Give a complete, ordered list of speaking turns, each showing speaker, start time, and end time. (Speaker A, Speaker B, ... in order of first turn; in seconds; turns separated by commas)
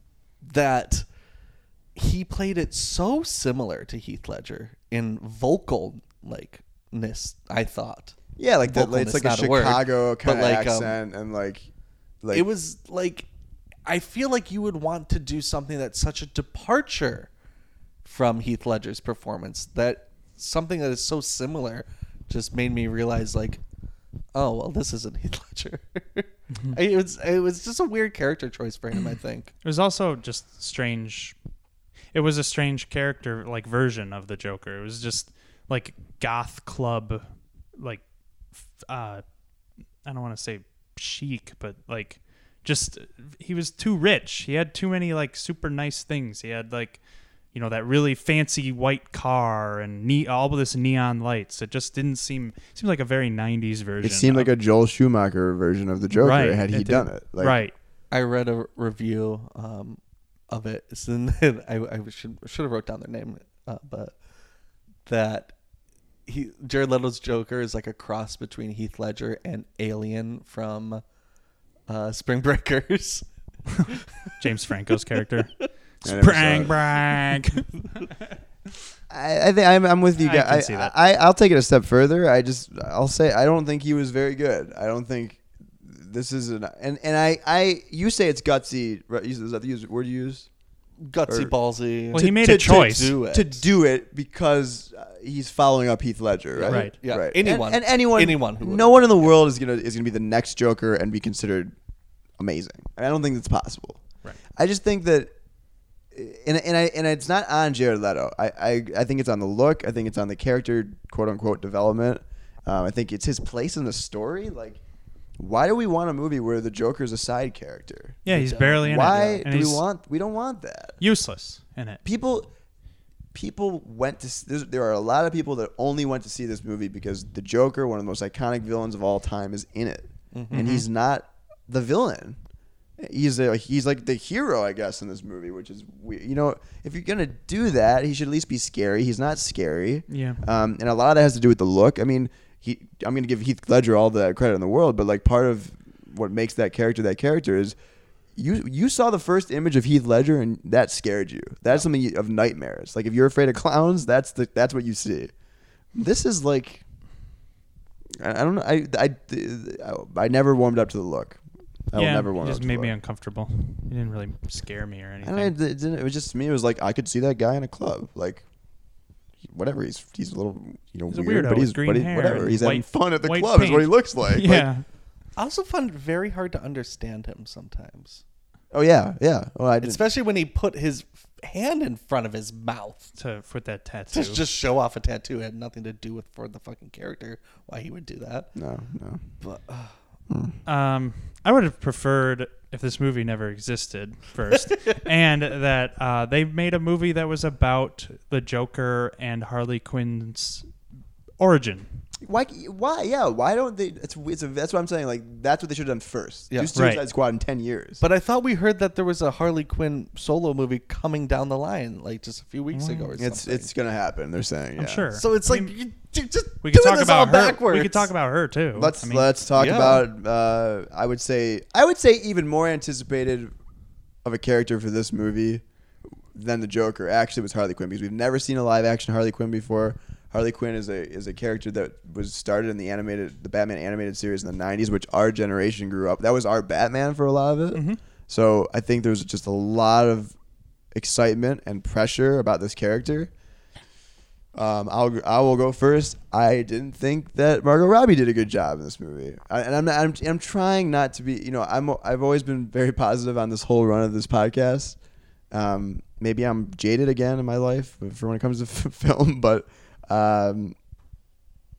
Speaker A: 0.4-1.1, Speaker A: 1.9-11.0, Speaker B: 8.4-11.7, Speaker A: 12.3-13.3, Speaker A: 13.9-17.3, Speaker A: 18.1-23.6, Speaker A: 24.3-29.5, Speaker C: 26.5-26.8, Speaker C: 29.6-31.4, Speaker C: 32.1-37.2, Speaker C: 37.8-38.0, Speaker C: 38.6-39.2, Speaker C: 40.0-47.0, Speaker C: 47.5-54.5, Speaker B: 54.0-57.6, Speaker C: 56.1-57.7, Speaker A: 58.1-60.0, Speaker A: 60.5-64.1, Speaker A: 65.1-65.5, Speaker A: 66.3-71.0, Speaker A: 71.9-73.2, Speaker A: 73.9-74.3, Speaker C: 74.4-75.5, Speaker B: 76.0-76.8, Speaker C: 76.0-77.7, Speaker B: 79.1-90.5, Speaker C: 80.2-80.9, Speaker A: 91.0-93.6, Speaker B: 91.3-91.5, Speaker B: 92.1-101.7, Speaker C: 92.1-93.1, Speaker A: 96.5-99.4, Speaker C: 96.7-97.0, Speaker B: 102.4-104.0, Speaker B: 104.6-105.3, Speaker B: 106.1-114.8, Speaker B: 115.4-121.0, Speaker C: 118.3-119.8, Speaker A: 118.3-119.1, Speaker C: 121.0-122.0, Speaker B: 122.0-122.5, Speaker B: 123.3-132.4, Speaker A: 130.3-130.7, Speaker C: 130.5-130.8, Speaker B: 133.0-147.8, Speaker C: 140.1-140.4, Speaker B: 148.4-155.3, Speaker B: 155.9-156.8, Speaker B: 158.2-162.9, Speaker C: 161.9-165.5, Speaker B: 165.2-168.4, Speaker B: 169.4-174.7, Speaker C: 171.1-174.8, Speaker A: 175.4-178.2, Speaker B: 178.7-180.0, Speaker A: 179.8-183.1, Speaker C: 183.2-184.4, Speaker A: 184.1-188.5, Speaker B: 188.6-189.2, Speaker A: 189.4-190.0, Speaker C: 190.7-200.7, Speaker C: 201.4-201.9, Speaker B: 202.2-208.0, Speaker C: 206.8-207.0, Speaker A: 208.0-213.7, Speaker C: 212.7-213.1, Speaker B: 213.2-215.1, Speaker C: 214.8-215.7, Speaker A: 215.2-218.1, Speaker C: 216.6-219.3, Speaker B: 218.8-223.5, Speaker A: 219.6-220.0, Speaker B: 224.2-225.6, Speaker B: 226.3-240.3, Speaker C: 237.7-238.0, Speaker B: 240.9-243.3, Speaker B: 244.5-255.0, Speaker B: 255.5-260.8